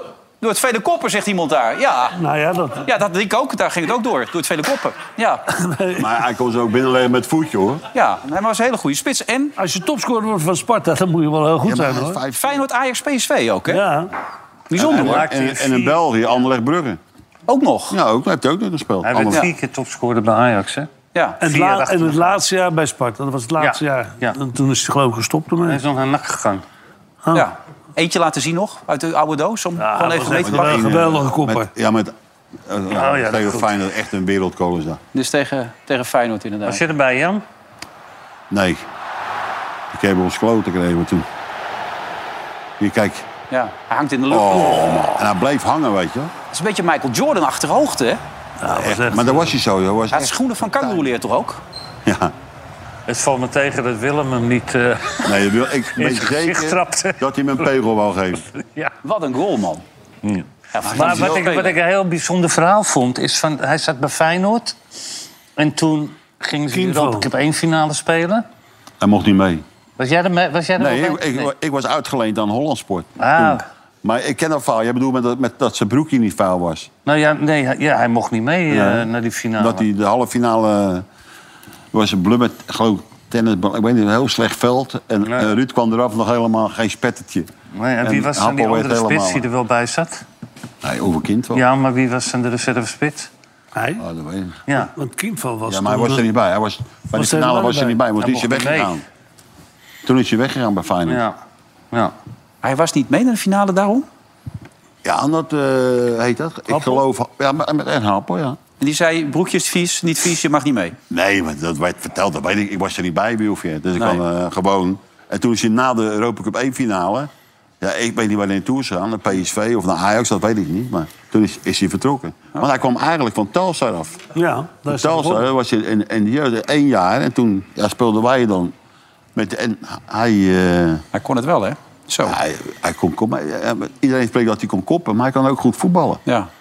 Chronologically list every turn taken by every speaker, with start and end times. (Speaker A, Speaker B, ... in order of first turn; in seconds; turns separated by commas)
Speaker A: 0.4-2.2, Speaker B: 2.1-2.9, Speaker A: 2.8-5.5, Speaker B: 5.5-6.1, Speaker C: 6.0-7.8, Speaker A: 7.9-9.6, Speaker B: 9.6-12.2, Speaker C: 11.6-12.5, Speaker A: 12.4-13.9, Speaker B: 13.7-14.1, Speaker A: 14.7-15.2, Speaker C: 14.8-17.0, Speaker D: 14.8-16.0, Speaker A: 17.5-18.0, Speaker C: 17.9-19.5, Speaker D: 19.0-20.9, Speaker A: 21.1-21.4, Speaker B: 21.4-25.8, Speaker D: 21.4-22.4, Speaker D: 23.6-24.4, Speaker D: 25.6-26.6, Speaker A: 27.3-31.0, Speaker B: 29.9-31.7, Speaker C: 30.4-32.1, Speaker C: 32.7-35.0, Speaker D: 33.0-33.7, Speaker A: 35.1-36.8, Speaker D: 36.7-37.4, Speaker C: 38.5-38.9, Speaker C: 39.9-41.3, Speaker C: 42.8-43.3, Speaker A: 43.5-45.1, Speaker C: 44.3-46.3, Speaker A: 46.5-48.2, Speaker B: 48.6-49.5, Speaker C: 48.7-51.0, Speaker A: 50.1-51.6, Speaker C: 52.0-52.3, Speaker D: 53.1-55.3, Speaker C: 55.2-58.4, Speaker D: 56.0-57.2, Speaker A: 59.0-59.8, Speaker D: 60.2-64.8, Speaker A: 60.7-61.8, Speaker D: 65.6-68.5, Speaker B: 66.7-67.3, Speaker C: 69.0-69.6, Speaker D: 70.0-71.5, Speaker C: 70.8-76.9, Speaker D: 73.2-73.7, Speaker D: 77.1-79.8, Speaker C: 78.7-81.0, Speaker C: 81.9-87.5, Speaker D: 85.3-85.5, Speaker D: 87.8-90.2, Speaker C: 88.0-89.5, Speaker C: 90.8-91.7, Speaker D: 91.5-93.3, Speaker B: 93.8-94.0, Speaker C: 94.0-94.6, Speaker B: 94.8-96.3, Speaker C: 95.7-99.0, Speaker B: 97.1-98.0, Speaker D: 98.2-99.0, Speaker C: 100.0-101.2, Speaker D: 101.1-101.3, Speaker A: 102.6-104.1, Speaker C: 105.0-108.6, Speaker B: 106.7-107.0, Speaker A: 108.8-111.0, Speaker C: 111.1-117.3, Speaker C: 117.8-124.3, Speaker B: 124.3-125.5, Speaker C: 124.8-128.7, Speaker C: 129.3-131.0, Speaker A: 131.1-132.4, Speaker C: 132.2-136.2